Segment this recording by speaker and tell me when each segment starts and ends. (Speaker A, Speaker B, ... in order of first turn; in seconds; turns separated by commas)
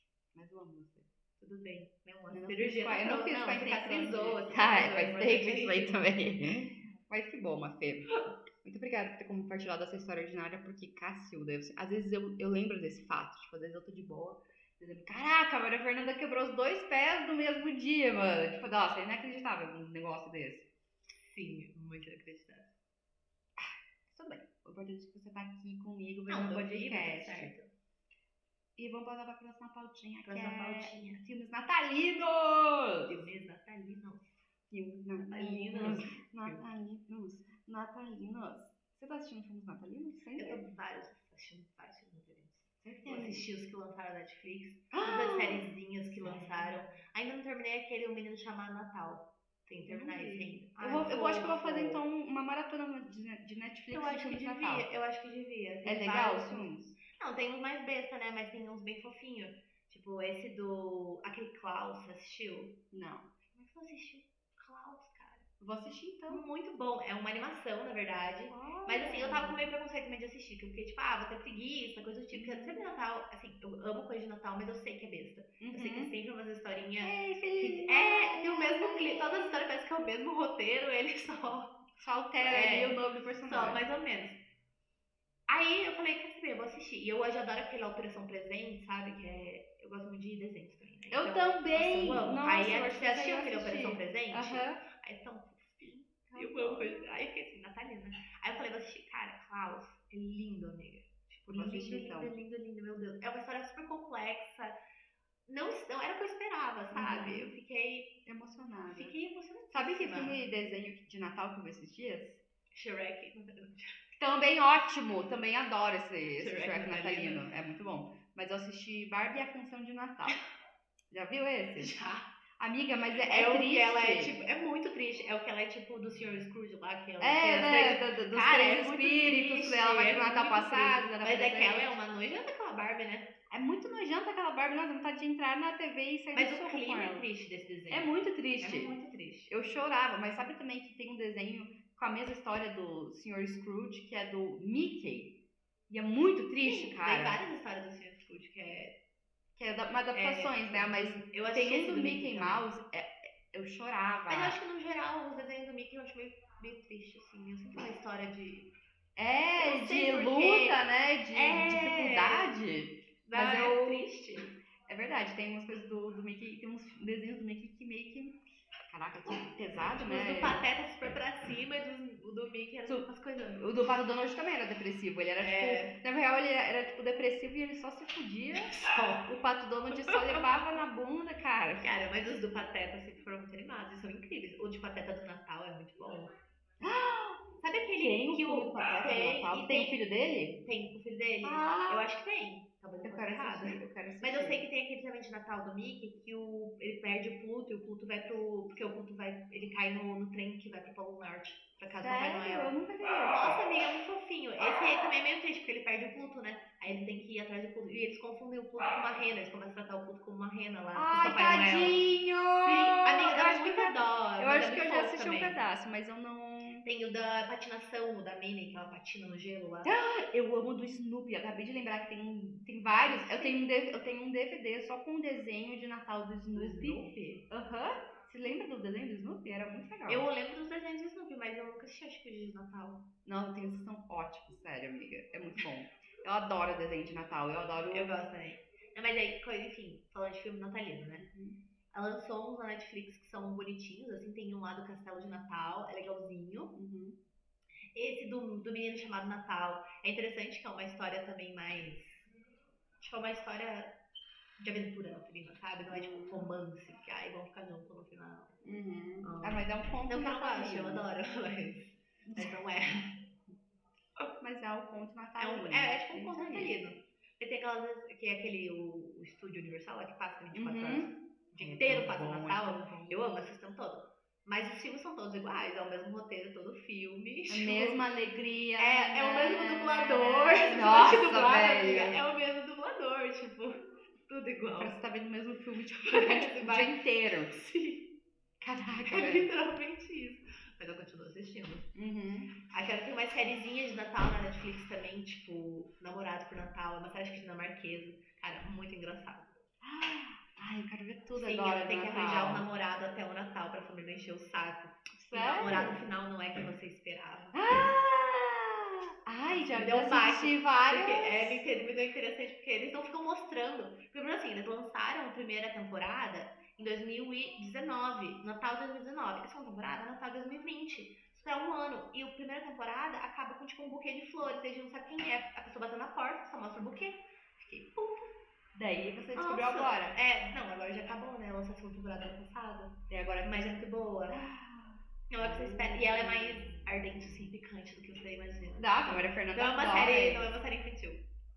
Speaker A: 0.3-1.1, Speaker B: 1.4-6.1, Speaker A: 2.3-20.7, Speaker B: 21.3-22.7, Speaker A: 23.6-27.5, Speaker B: 26.3-27.7, Speaker A: 28.8-33.1, Speaker B: 30.2-31.2, Speaker B: 33.0-34.4, Speaker A: 34.7-40.7, Speaker B: 35.2-36.6, Speaker B: 40.4-52.0, Speaker A: 42.8-43.5, Speaker A: 44.9-46.8, Speaker A: 49.9-54.9, Speaker B: 53.9-62.8, Speaker A: 55.9-57.0, Speaker A: 62.9-63.3, Speaker B: 63.5-65.5, Speaker A: 65.6-66.5, Speaker B: 66.3-84.4, Speaker A: 68.5-69.6, Speaker A: 72.3-72.8, Speaker A: 75.6-76.1, Speaker A: 77.0-79.6, Speaker A: 82.0-83.8, Speaker B: 85.5-104.8, Speaker A: 91.1-94.8, Speaker A: 96.3-97.1, Speaker A: 101.5-102.3, Speaker B: 105.5-108.2, Speaker A: 106.9-107.5, Speaker A: 108.3-109.2, Speaker B: 108.9-110.4, Speaker A: 109.7-112.4, Speaker B: 112.7-114.0, Speaker A: 114.2-120.4, Speaker B: 116.4-117.5, Speaker A: 121.1-122.0, Speaker B: 121.8-122.3, Speaker A: 122.6-124.3, Speaker B: 123.3-133.4, Speaker A: 127.2-132.0, Speaker A: 133.5-137.3, Speaker B: 136.3-139.5, Speaker A: 137.9-138.9, Speaker A: 139.5-147.4, Speaker B: 146.6-149.0, Speaker A: 149.6-154.6, Speaker B: 150.1-152.7, Speaker B: 154.3-158.7, Speaker A: 159.2-164.1, Speaker B: 159.6-160.8, Speaker B: 161.3-162.6, Speaker B: 163.2-164.6, Speaker A: 164.9-170.6, Speaker B: 169.8-173.8, Speaker A: 172.9-181.9, Speaker B: 175.4-176.0, Speaker B: 178.7-179.3, Speaker B: 180.0-180.6, Speaker B: 181.8-186.3, Speaker A: 186.8-187.5, Speaker B: 187.6-190.0, Speaker A: 188.0-190.6, Speaker B: 190.7-212.1, Speaker A: 191.4-192.1, Speaker A: 193.0-194.7, Speaker A: 201.9-203.7, Speaker A: 210.9-216.9, Speaker B: 212.6-215.6, Speaker B: 216.8-219.9, Speaker A: 219.8-230.3, Speaker B: 223.0-223.6, Speaker B: 226.5-227.5, Speaker B: 230.1-233.1, Speaker A: 233.2-238.1, Speaker B: 237.9-241.3, Speaker A: 241.2-241.6, Speaker B: 241.9-246.8, Speaker A: 246.8-247.2, Speaker B: 247.9-252.3, Speaker B: 253.0-254.0, Speaker B: 254.6-258.6, Speaker A: 255.9-256.5, Speaker A: 258.6-261.1, Speaker B: 259.2-263.2, Speaker A: 262.2-262.6, Speaker A: 264.4-266.8, Speaker B: 265.4-278.0, Speaker A: 270.5-273.5, Speaker A: 277.5-282.2, Speaker B: 278.8-285.0, Speaker A: 284.8-287.7, Speaker B: 286.0-288.2, Speaker A: 288.6-289.5, Speaker B: 289.0-291.9, Speaker A: 291.9-292.5, Speaker B: 292.7-299.6, Speaker A: 299.8-302.7, Speaker B: 301.3-307.6, Speaker A: 305.2-306.0, Speaker A: 307.6-311.6, Speaker B: 309.5-328.4, Speaker A: 328.7-330.2, Speaker B: 329.4-334.4, Speaker A: 333.1-336.7, Speaker B: 335.3-341.3, Speaker A: 338.8-340.6